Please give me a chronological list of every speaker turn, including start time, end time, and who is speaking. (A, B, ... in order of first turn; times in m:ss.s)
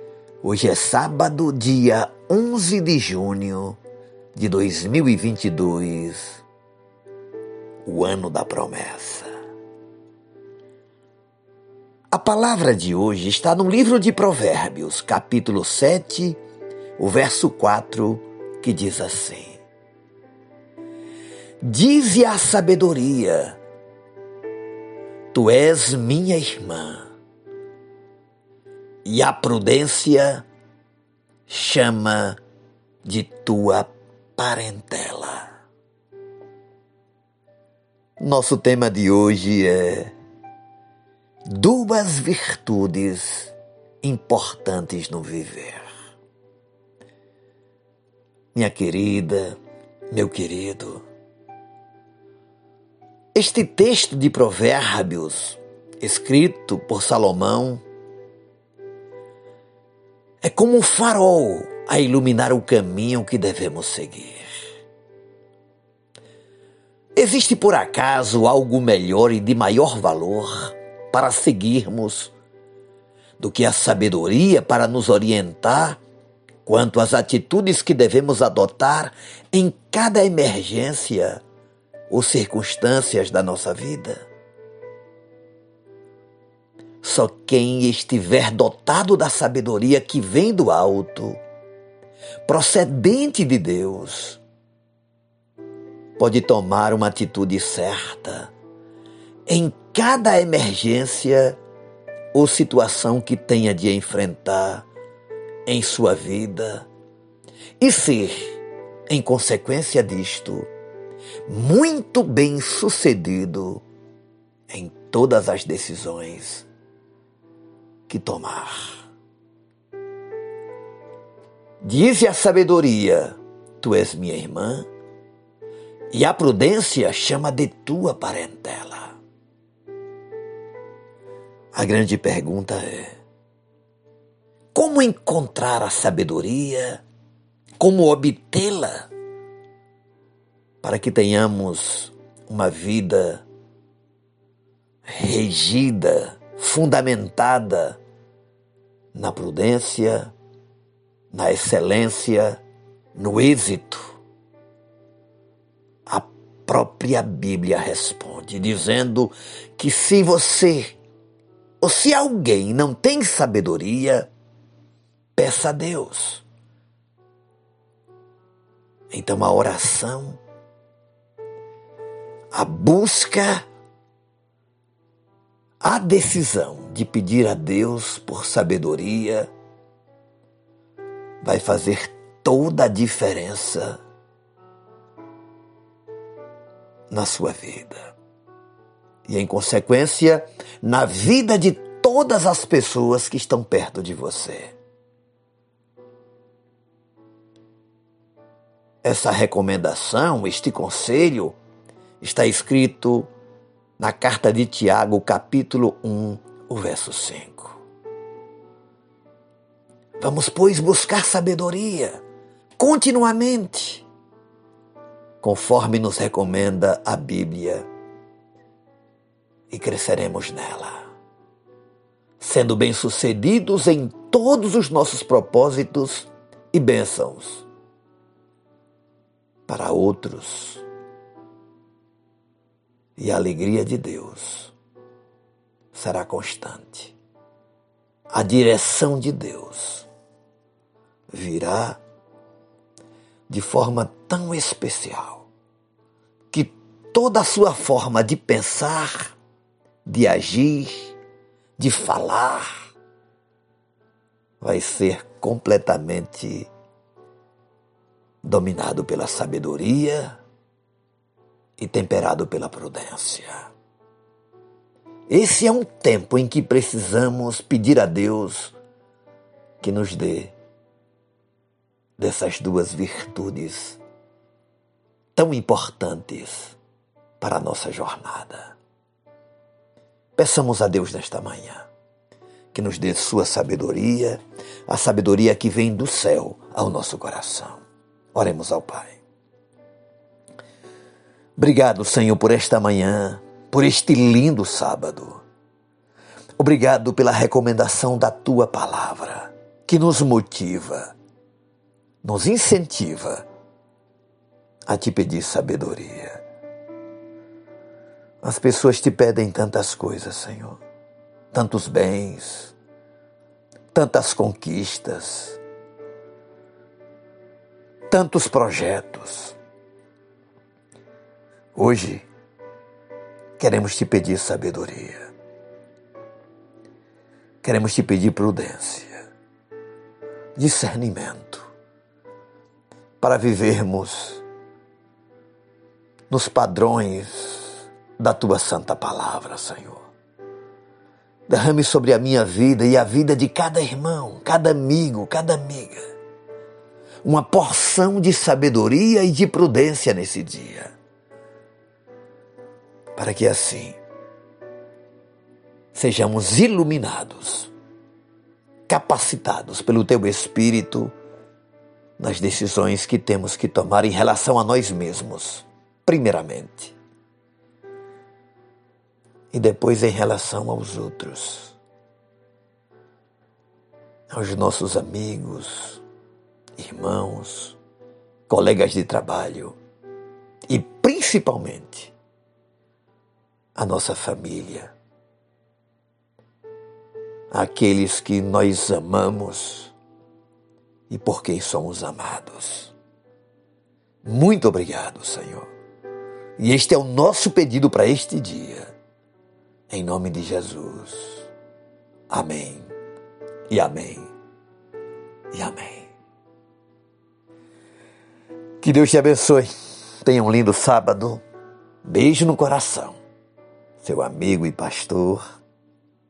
0:00.4-0:03.8 A
0:04.3-0:06.4 A
0:07.8-0:09.3 A
0:12.1-0:16.4 A
0:17.0-0:19.6 A
0:21.6-0:23.6 A
0:25.3-0:27.1 A
0:29.0-0:30.4 A
0:31.5-0:32.4 A
0:33.0-0:35.5 A
0:38.2-0:40.1 A
0:41.4-0:45.9 A
0:48.5-0:49.6 A
0:50.1-0:51.0 A
0:53.3-0:57.8 A
1:00.4-1:04.5 A
1:07.1-1:12.3 A
1:13.4-1:16.0 A
1:16.6-1:21.4 A
1:22.1-1:24.2 A
1:27.0-1:31.4 A
1:32.4-1:34.4 A
1:36.2-1:38.5 A
1:39.5-1:41.6 A
1:42.3-1:44.9 A
1:45.6-1:46.9 A
1:47.8-1:50.7 A
1:51.5-1:53.8 A
1:54.7-1:56.6 A
1:58.1-1:59.0 A
2:01.8-2:04.9 A
2:06.1-2:09.2 A
2:11.7-2:13.2 A
2:14.7-2:17.0 A
2:17.8-2:19.1 A
2:20.8-2:23.4 A
2:25.0-2:28.0 A
2:29.1-2:30.3 A
2:31.3-2:32.6 A
2:33.1-2:34.2 A
2:36.1-2:40.9 A
2:41.8-2:44.3 A
2:45.4-2:46.4 A
2:49.1-2:50.4 A
2:52.5-2:53.6 A
2:55.8-2:59.5 A
3:01.4-3:04.0 A
3:07.1-3:08.1 A
3:09.2-3:14.7 A
3:19.0-3:21.6 A
3:22.2-3:23.3 A
3:24.0-3:27.8 A
3:30.2-3:32.2 A
3:32.8-3:34.0 A
3:35.4-3:37.8 A
3:39.7-3:41.1 A
3:42.4-3:47.6 A
3:49.7-3:50.8 A
3:53.2-3:54.7 A
3:55.9-3:57.1 A
3:58.3-4:00.1 A
4:01.3-4:02.0 A
4:03.5-4:05.4 A
4:06.5-4:09.3 A
4:10.0-4:11.1 A
4:11.8-4:12.9 A
4:14.6-4:16.7 A
4:18.4-4:20.4 A
4:21.8-4:23.7 A
4:25.3-4:28.7 A
4:29.8-4:30.5 A
4:32.2-4:34.0 A
4:35.4-4:36.8 A
4:37.4-4:38.7 A
4:40.4-4:41.9 A
4:42.7-4:47.8 A
4:48.3-4:49.2 A
4:51.6-4:55.4 A
4:56.6-5:01.1 A
5:02.2-5:03.4 A
5:04.9-5:06.4 A
5:08.4-5:10.8 A
5:11.5-5:12.7 A
5:13.9-5:15.6 A
5:18.1-5:19.6 A
5:21.7-5:22.2 A
5:23.6-5:25.3 A
5:27.6-5:29.2 A
5:30.6-5:31.7 A
5:33.2-5:34.4 A
5:36.3-5:40.1 A
5:41.5-5:46.0 A
5:47.2-5:50.9 A
5:53.1-5:54.0 A
5:55.9-5:57.7 A
5:58.9-6:01.1 A
6:02.2-6:06.9 A
6:09.5-6:11.7 A
6:14.3-6:16.0 A
6:16.8-6:17.8 A
6:18.5-6:19.8 A
6:20.7-6:22.1 A
6:23.7-6:24.9 A
6:27.5-6:29.9 A
6:31.1-6:32.9 A
6:34.2-6:35.7 A
6:36.6-6:38.9 A
6:39.9-6:41.5 A
6:42.3-6:42.9 A
6:43.7-6:44.3 A
6:45.5-6:46.1 A
6:48.8-6:51.4 A
6:52.0-6:53.2 A
6:54.0-6:55.4 A